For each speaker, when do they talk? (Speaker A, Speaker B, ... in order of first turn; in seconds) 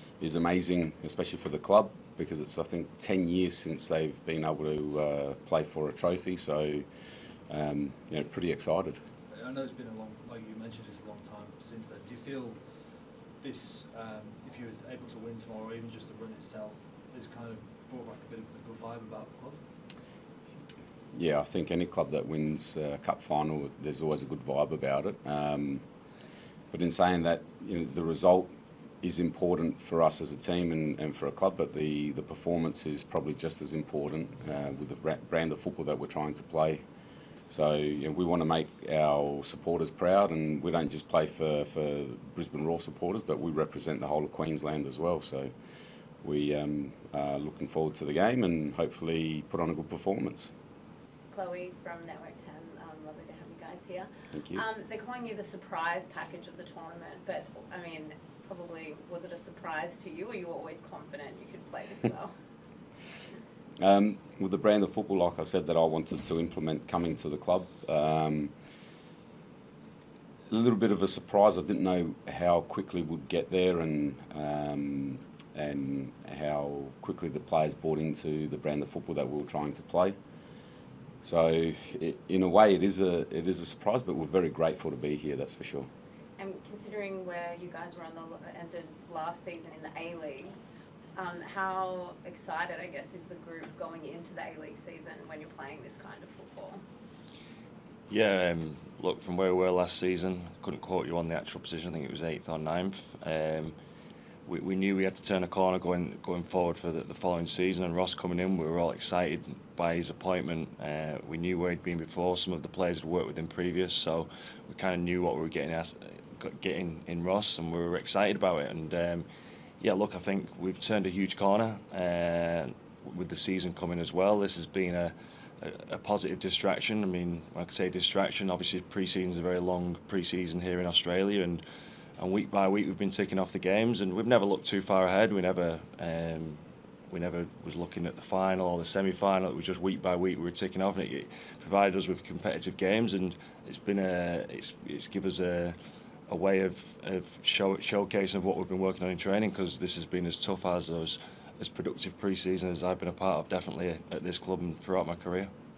Speaker A: 0.2-6.9, 7.5-9.0, 21.1-25.8, 26.7-36.9, 37.5-45.5, 46.2-50.5, 54.3-54.6, 63.8-68.5, 70.5-80.2, 81.2-85.9
Speaker B: 9.3-19.6
Speaker C: 51.3-62.3, 86.4-96.8
Speaker D: 98.1-103.8, 104.5-119.3, 119.8-131.6, 132.2-145.8, 146.3-155.5